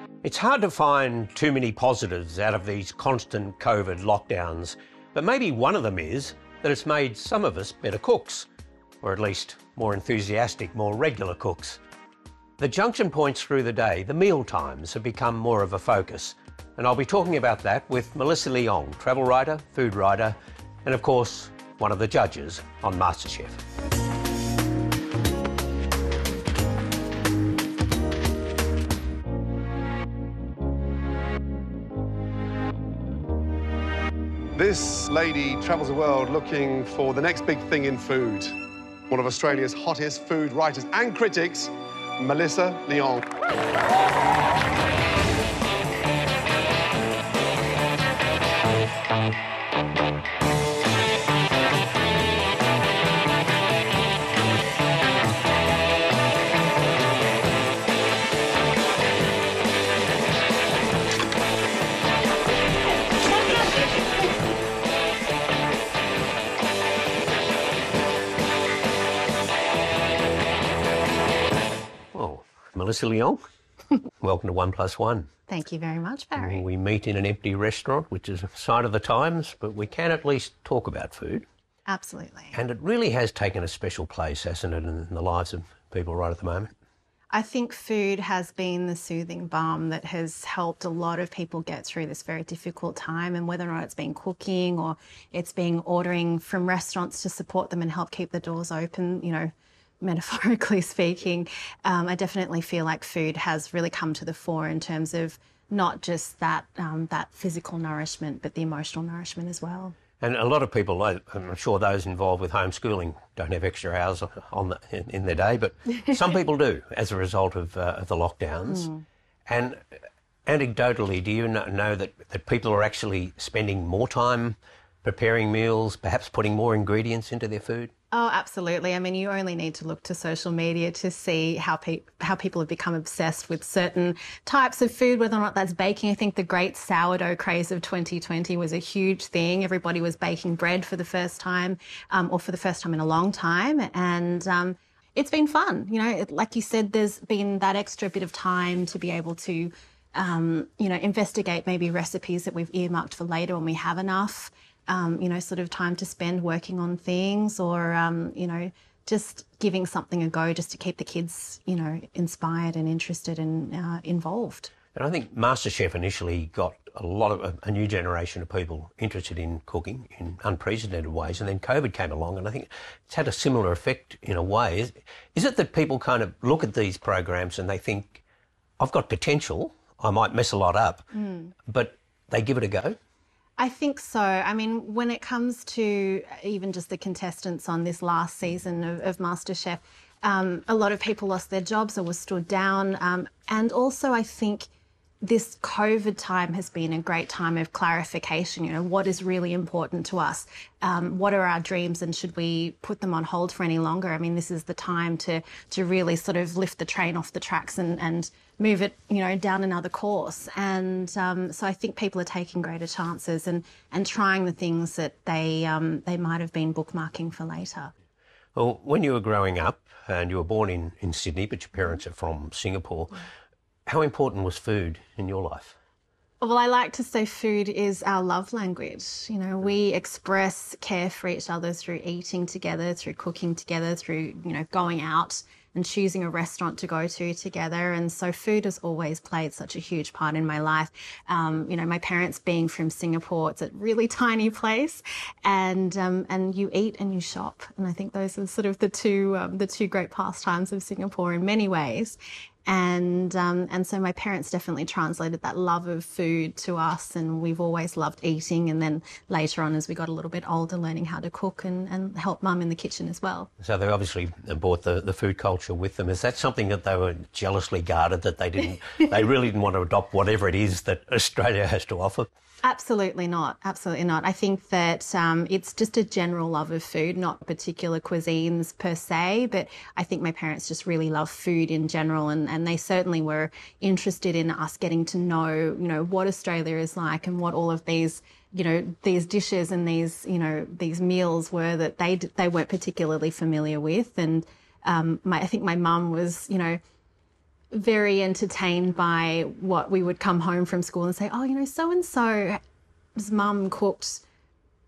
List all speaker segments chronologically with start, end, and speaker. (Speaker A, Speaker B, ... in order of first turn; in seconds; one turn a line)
Speaker A: 0.2-8.5
Speaker A: 9.0-11.8
Speaker A: 12.6-23.6
Speaker B: 34.5-38.5
Speaker B: 39.1-43.2
Speaker A: 72.1-73.4
Speaker A: 74.2-75.3
Speaker C: 75.5-76.6
Speaker A: 76.4-81.5
Speaker C: 81.9-82.6
Speaker A: 82.5-86.7
Speaker C: 87.3-110.0
Speaker A: 110.2-118.9
Speaker C: 118.7-119.0
Speaker A: 119.5-119.8
Speaker A: 120.5-127.9
Speaker C: 128.1-164.7
Speaker A: 164.9-178.2
Speaker A: 178.8-181.1
Speaker C: 181.1-181.5
Speaker A: 181.7-183.0
Speaker C: 183.6-194.7
Speaker C: 195.2-217.9
Speaker A: 218.6-223.2
Speaker A: 223.9-225.8
Speaker C: 226.4-263.5
Speaker A: 263.6-272.3
Speaker C: 272.6-296.8
Speaker C: 297.7-302.6
Speaker C: 303.2-304.2